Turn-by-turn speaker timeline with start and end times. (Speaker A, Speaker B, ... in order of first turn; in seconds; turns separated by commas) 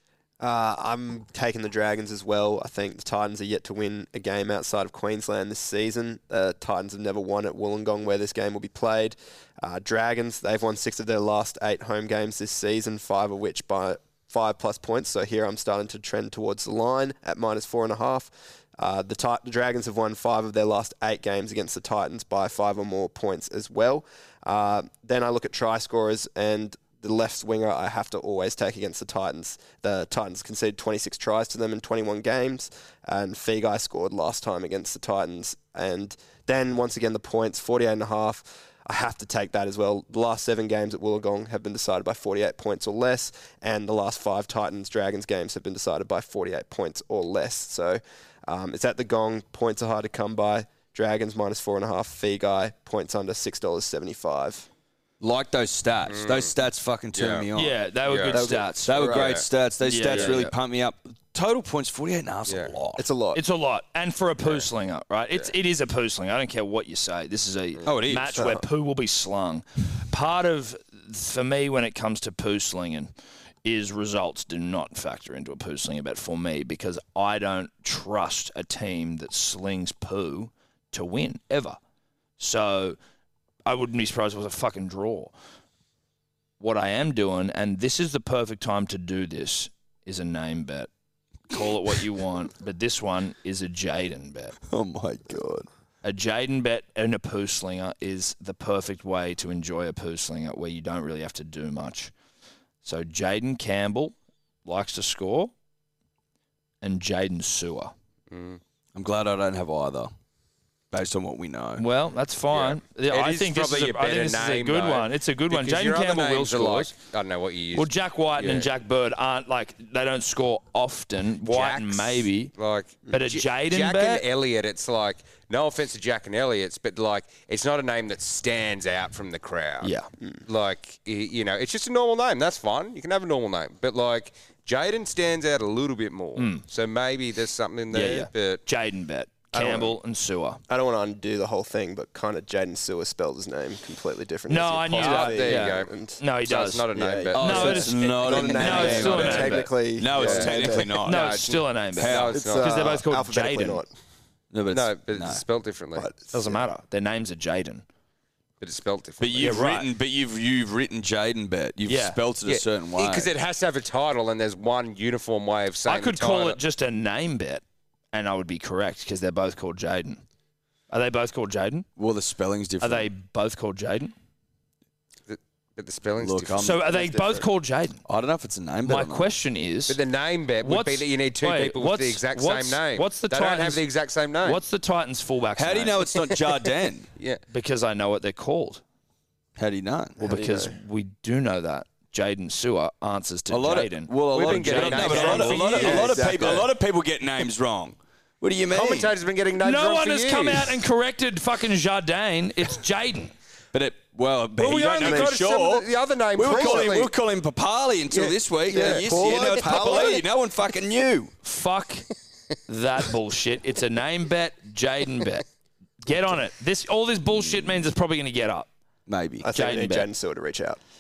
Speaker A: 0.4-54.7, Speaker B: 55.2-57.8, Speaker C: 56.1-56.5, Speaker C: 57.1-57.5, Speaker D: 57.5-59.2, Speaker C: 58.1-58.4, Speaker A: 58.3-59.4, Speaker B: 58.4-63.1, Speaker C: 59.1-59.5, Speaker D: 59.8-60.5, Speaker C: 62.5-62.7, Speaker A: 63.0-63.4, Speaker D: 63.3-73.1, Speaker B: 67.8-68.5, Speaker A: 68.4-68.6, Speaker D: 73.7-81.8, Speaker D: 82.4-83.0, Speaker D: 83.7-85.3, Speaker D: 86.6-90.9, Speaker D: 91.5-94.6, Speaker B: 94.7-95.7, Speaker D: 96.0-102.1, Speaker D: 102.8-105.5, Speaker D: 106.8-107.9, Speaker C: 108.3-108.6, Speaker B: 109.0-110.1, Speaker B: 110.9-111.8, Speaker D: 111.8-116.9, Speaker C: 112.5-118.7, Speaker D: 117.8-122.5, Speaker C: 121.5-129.9, Speaker D: 123.1-124.2, Speaker D: 129.8-130.1, Speaker C: 130.4-138.6, Speaker D: 136.4-136.6, Speaker D: 137.9-140.6, Speaker A: 139.5-140.0, Speaker A: 140.7-146.2, Speaker D: 144.5-149.7, Speaker C: 144.9-145.9, Speaker C: 146.4-149.5, Speaker A: 146.9-150.9, Speaker B: 147.3-151.4, Speaker C: 150.1-152.8, Speaker D: 151.0-153.8, Speaker B: 151.9-152.4, Speaker A: 152.3-153.9, Speaker B: 154.5-155.4, Speaker C: 154.7-156.1, Speaker A: 156.0-156.7, Speaker D: 156.3-157.8, Speaker C: 158.6-159.6, Speaker B: 159.2-163.3, Speaker D: 159.4-159.9, Speaker D: 161.9-162.2, Speaker C: 162.5-166.6, Speaker D: 165.9-167.6, Speaker D: 168.1-170.2, Speaker D: 170.9-171.9, Speaker B: 172.0-173.1, Speaker D: 172.8-174.1, Speaker C: 175.3-177.4, Speaker B: 176.2-176.9, Speaker D: 176.6-178.0, Speaker B: 178.1-179.3, Speaker D: 178.8-180.0, Speaker C: 179.9-184.6, Speaker D: 180.6-183.8, Speaker D: 184.4-186.1, Speaker B: 185.6-187.1, Speaker D: 187.5-188.8, Speaker B: 189.6-190.2, Speaker A: 190.2-190.8, Speaker D: 190.2-196.1, Speaker B: 193.5-199.1, Speaker C: 194.3-196.5, Speaker A: 195.7-196.7, Speaker C: 198.7-200.8, Speaker D: 199.6-203.3, Speaker B: 203.7-211.3, Speaker C: 204.6-207.1, Speaker A: 205.0-205.3, Speaker A: 206.5-206.9, Speaker A: 208.1-210.2, Speaker C: 208.7-209.9, Speaker D: 211.4-212.1, Speaker D: 212.7-215.5, Speaker D: 216.0-218.7, Speaker B: 219.1-219.5, Speaker A: 219.4-220.8, Speaker D: 219.5-220.1